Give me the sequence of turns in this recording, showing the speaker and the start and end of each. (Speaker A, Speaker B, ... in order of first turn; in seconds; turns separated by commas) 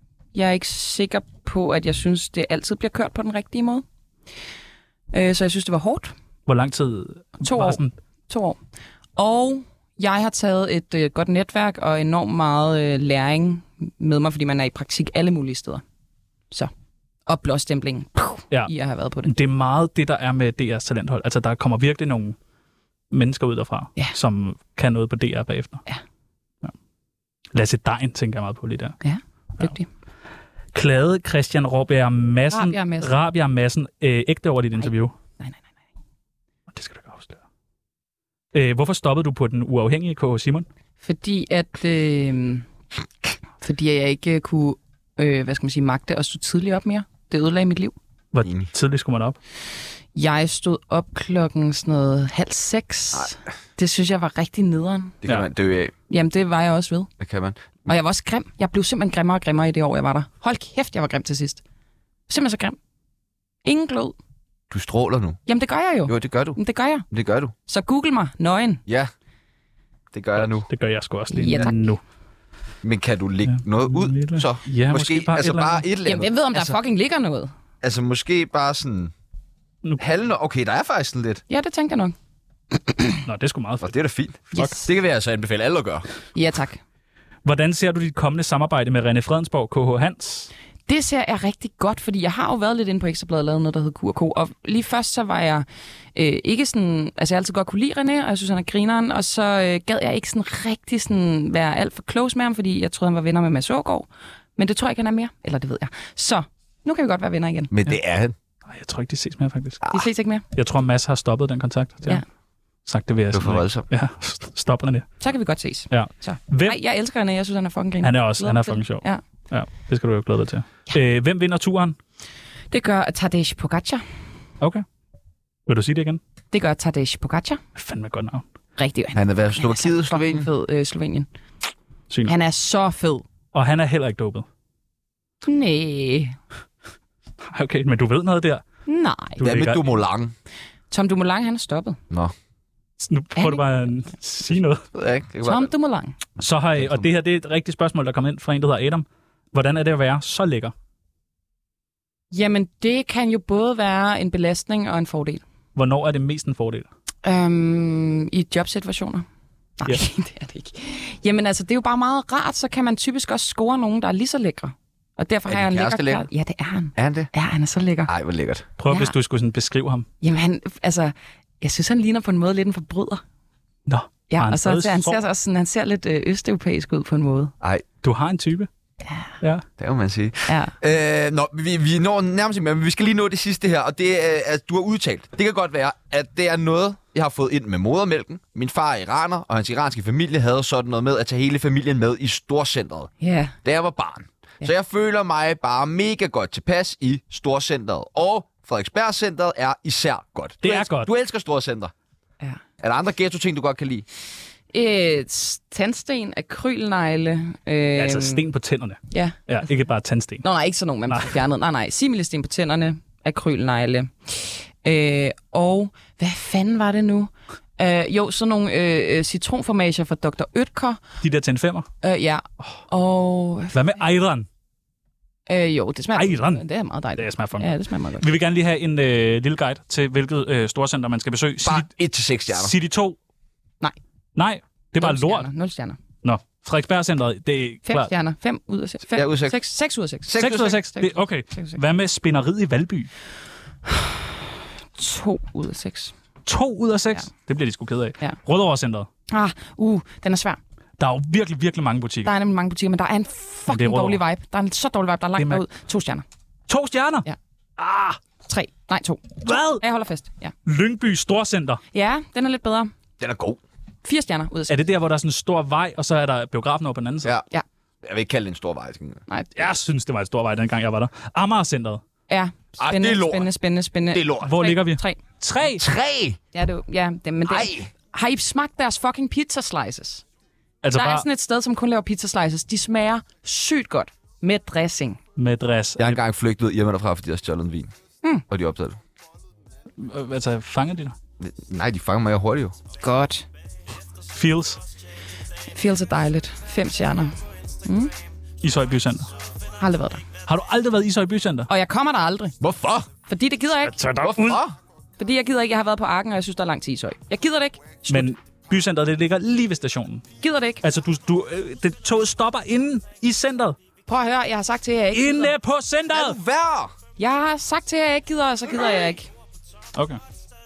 Speaker A: 0.3-3.9, Speaker A: 5.1-6.1, Speaker B: 6.5-7.9, Speaker A: 7.4-8.6, Speaker A: 9.2-15.8, Speaker A: 17.3-19.3, Speaker B: 19.2-22.4, Speaker B: 23.1-25.8, Speaker B: 27.5-29.0, Speaker A: 29.0-29.9, Speaker B: 30.7-35.1, Speaker A: 32.5-33.1, Speaker A: 34.8-35.6, Speaker B: 36.7-37.4, Speaker B: 38.5-40.7, Speaker A: 41.0-42.7, Speaker A: 43.6-48.0, Speaker B: 48.3-49.4, Speaker C: 48.4-48.7, Speaker A: 50.1-55.2, Speaker C: 55.2-55.9, Speaker A: 56.1-57.1, Speaker C: 57.2-57.7, Speaker A: 57.9-61.6, Speaker A: 62.3-62.8, Speaker A: 63.6-64.2, Speaker C: 64.7-65.4, Speaker A: 65.5-67.0, Speaker C: 66.0-66.6, Speaker C: 67.1-67.5, Speaker A: 67.7-68.8, Speaker C: 68.9-69.1, Speaker C: 70.1-70.7, Speaker B: 70.4-72.0, Speaker A: 71.3-71.9, Speaker C: 72.8-76.8, Speaker B: 73.5-75.8, Speaker A: 76.0-77.5, Speaker C: 77.8-79.1, Speaker C: 80.0-81.4, Speaker A: 81.5-82.1, Speaker B: 83.2-83.9, Speaker C: 83.8-86.0, Speaker A: 84.5-84.9, Speaker A: 86.3-86.8, Speaker B: 87.5-90.5, Speaker A: 90.9-107.7, Speaker C: 107.7-108.4, Speaker B: 108.7-109.8, Speaker C: 109.8-110.1, Speaker A: 109.9-110.4, Speaker B: 110.5-112.2, Speaker B: 112.9-115.1, Speaker C: 113.3-113.8, Speaker A: 115.2-119.2, Speaker B: 115.9-116.8, Speaker B: 118.0-122.0, Speaker A: 122.7-124.0, Speaker B: 124.6-124.8, Speaker B: 125.7-126.2, Speaker A: 126.5-127.6, Speaker B: 127.7-128.4, Speaker A: 128.8-131.3, Speaker C: 129.1-130.5, Speaker A: 132.3-133.3, Speaker B: 133.5-134.4, Speaker A: 135.4-136.4, Speaker B: 137.5-138.6, Speaker A: 138.9-139.4, Speaker B: 139.4-139.9, Speaker C: 139.4-140.3, Speaker A: 140.9-142.0, Speaker B: 143.0-144.8, Speaker A: 143.4-143.6, Speaker C: 144.9-145.7, Speaker A: 145.4-146.2, Speaker B: 146.4-150.7, Speaker C: 146.8-147.1, Speaker A: 152.3-155.4, Speaker B: 155.7-156.9, Speaker A: 157.2-159.2, Speaker A: 159.8-168.1, Speaker C: 165.5-166.3, Speaker C: 166.9-167.3, Speaker C: 168.1-168.7, Speaker B: 168.8-170.1, Speaker A: 168.9-169.1, Speaker A: 170.2-173.2, Speaker B: 173.9-175.2, Speaker A: 174.3-177.5, Speaker B: 178.0-178.7, Speaker C: 179.8-193.1, Speaker A: 180.5-180.7, Speaker A: 193.2-193.6, Speaker C: 193.6-201.9, Speaker B: 200.6-201.1, Speaker C: 202.8-204.1, Speaker A: 204.7-208.4, Speaker B: 208.0-210.4, Speaker A: 209.1-209.4, Speaker A: 210.4-221.0, Speaker B: 211.1-211.4, Speaker B: 221.2-221.9, Speaker A: 222.0-223.8, Speaker B: 223.7-224.5, Speaker A: 225.5-228.3, Speaker B: 226.1-226.6, Speaker B: 227.2-231.9, Speaker C: 231.6-232.7, Speaker B: 232.5-233.2, Speaker B: 234.4-235.5, Speaker A: 235.0-236.0, Speaker B: 236.2-238.1, Speaker A: 237.9-241.8, Speaker C: 239.1-239.6, Speaker C: 240.3-240.8, Speaker B: 240.4-243.1, Speaker A: 243.9-244.4, Speaker A: 244.9-246.1, Speaker B: 246.4-249.1, Speaker A: 249.3-250.6, Speaker B: 251.0-252.3, Speaker A: 252.2-256.2, Speaker B: 253.7-254.2, Speaker B: 255.4-255.6, Speaker B: 256.7-257.3, Speaker B: 257.8-258.2, Speaker A: 258.5-260.5, Speaker B: 259.4-259.8, Speaker B: 260.6-261.8, Speaker A: 261.9-262.9, Speaker C: 263.2-263.6, Speaker A: 264.0-264.8, Speaker B: 264.7-267.3, Speaker C: 268.0-269.2, Speaker A: 269.3-269.7, Speaker B: 269.6-272.0, Speaker A: 272.3-275.2, Speaker C: 272.8-273.5, Speaker C: 274.1-274.6, Speaker B: 274.4-275.9, Speaker C: 275.8-276.4, Speaker A: 276.5-280.2, Speaker C: 277.4-277.9, Speaker B: 280.8-281.3, Speaker A: 280.9-285.2, Speaker B: 285.4-286.2, Speaker C: 286.0-287.9, Speaker C: 288.5-289.0, Speaker B: 290.0-291.2, Speaker C: 291.4-292.8, Speaker A: 293.0-293.4, Speaker B: 294.3-294.8, Speaker A: 295.7-298.1, Speaker B: 298.6-299.3, Speaker A: 299.8-300.2, Speaker B: 300.4-301.7, Speaker A: 301.7-302.6, Speaker C: 302.6-303.1, Speaker A: 303.3-304.0, Speaker B: 303.9-304.6, Speaker C: 304.2-304.8, Speaker A: 305.2-308.3, Speaker B: 308.1-310.2, Speaker A: 310.4-310.8, Speaker B: 310.8-313.8, Speaker A: 314.1-315.5, Speaker B: 315.1-316.4, Speaker C: 316.1-316.9, Speaker A: 317.2-319.3, Speaker B: 319.9-320.2